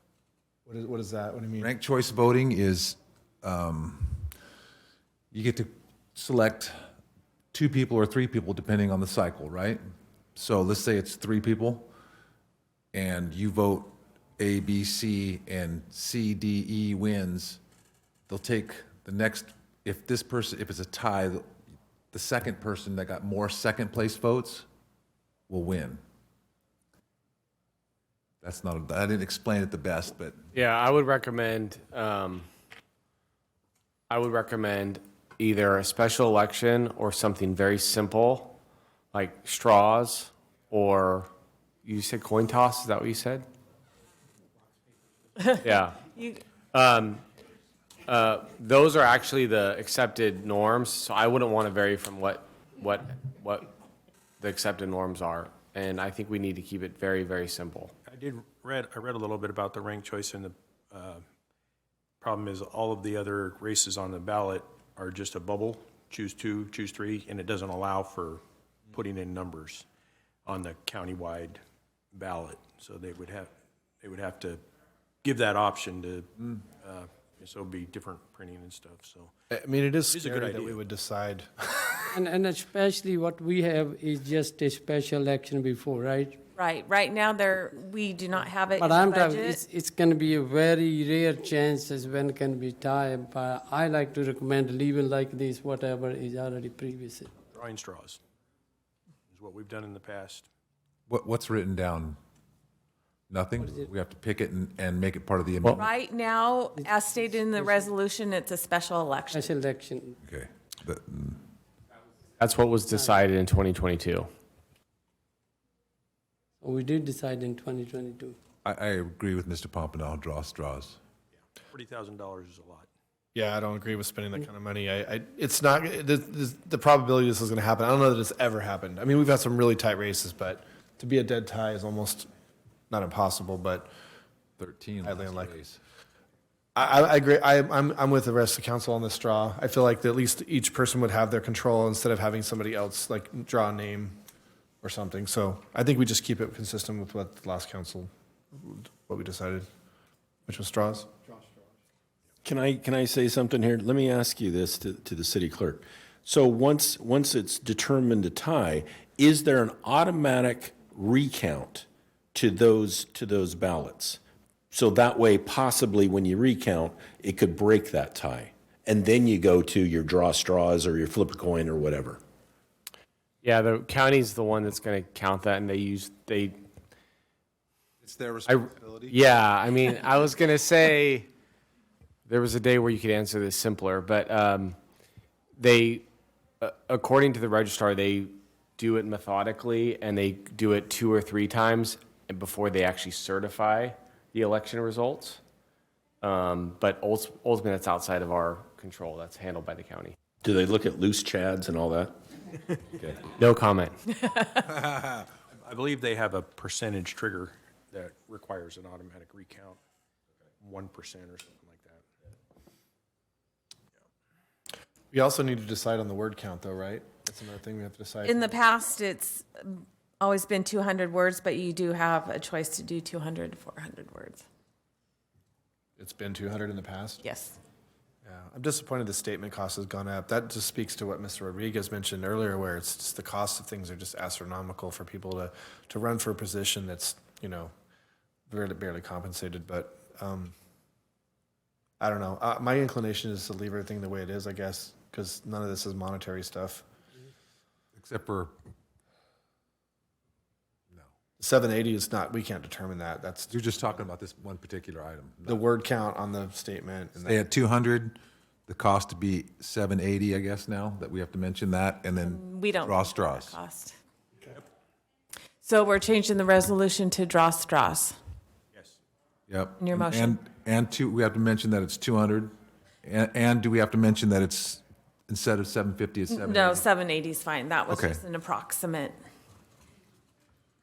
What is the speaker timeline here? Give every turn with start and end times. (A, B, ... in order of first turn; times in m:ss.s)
0:00.6-0:01.7 A
0:01.6-0:04.3 B
0:05.3-0:06.7 B
0:07.5-0:09.8 B
0:10.3-0:11.9 B
0:12.9-0:17.6 B
0:18.3-0:21.4 B
0:22.1-0:24.6 B
0:25.5-0:26.0 B
0:28.4-0:30.4 B
0:30.5-0:32.5 C
0:34.1-0:38.6 C
0:39.1-0:41.3 C
0:41.8-0:43.4 C
0:45.4-0:45.6 D
0:45.6-0:46.0 C
0:46.7-0:47.2 C
0:48.0-0:53.7 C
0:54.4-0:57.9 C
0:58.0-1:01.2 E
1:02.2-1:09.8 E
1:10.4-1:11.6 E
1:12.1-1:13.5 E
1:14.0-1:14.6 E
1:15.2-1:19.3 E
1:19.5-1:22.1 A
1:20.1-1:20.8 E
1:22.1-1:26.4 F
1:26.6-1:29.6 D
1:28.8-1:37.3 F
1:37.5-1:38.2 E
1:39.3-1:40.5 E
1:41.1-1:42.2 B
1:43.3-1:45.9 B
1:43.6-1:43.9 F
1:45.8-1:49.5 D
1:46.8-1:47.9 F
1:49.3-1:50.2 F
1:50.2-1:51.4 B
1:52.4-1:54.2 C
1:52.9-1:53.2 F
1:56.6-1:58.4 F
1:58.6-2:01.0 B
2:01.7-2:02.9 E
2:03.3-2:12.3 A
2:12.9-2:13.9 A
2:14.6-2:15.8 B
2:15.0-2:15.5 A
2:16.8-2:24.2 A
2:24.8-2:29.7 A
2:30.5-2:31.1 A
2:32.4-2:44.2 G
2:44.7-2:52.2 G
2:53.4-2:56.6 C
2:58.0-2:59.2 B
2:58.4-3:01.3 C
3:02.3-3:04.8 C
3:05.6-3:06.0 C
3:06.6-3:15.4 C
3:16.2-3:20.2 C
3:20.4-3:22.1 G
3:22.9-3:23.2 G
3:23.4-3:24.0 C
3:24.2-3:24.6 D
3:24.8-3:29.8 E
3:30.6-3:32.0 E
3:35.1-3:38.6 A
3:38.2-3:44.4 D
3:46.0-3:47.2 A
3:47.2-3:47.6 D
3:48.2-3:57.7 A
3:58.5-4:00.5 A
4:02.0-4:06.8 A
4:07.9-4:08.5 B
4:11.4-4:14.0 A
4:13.5-4:15.6 B
4:15.4-4:17.4 A
4:17.2-4:23.6 B
4:22.2-4:24.0 D
4:25.6-4:28.2 D
4:28.7-4:29.0 E
4:29.5-4:32.5 B
4:29.8-4:30.4 D
4:33.0-4:36.8 B
4:36.3-4:39.2 D
4:37.9-4:38.2 B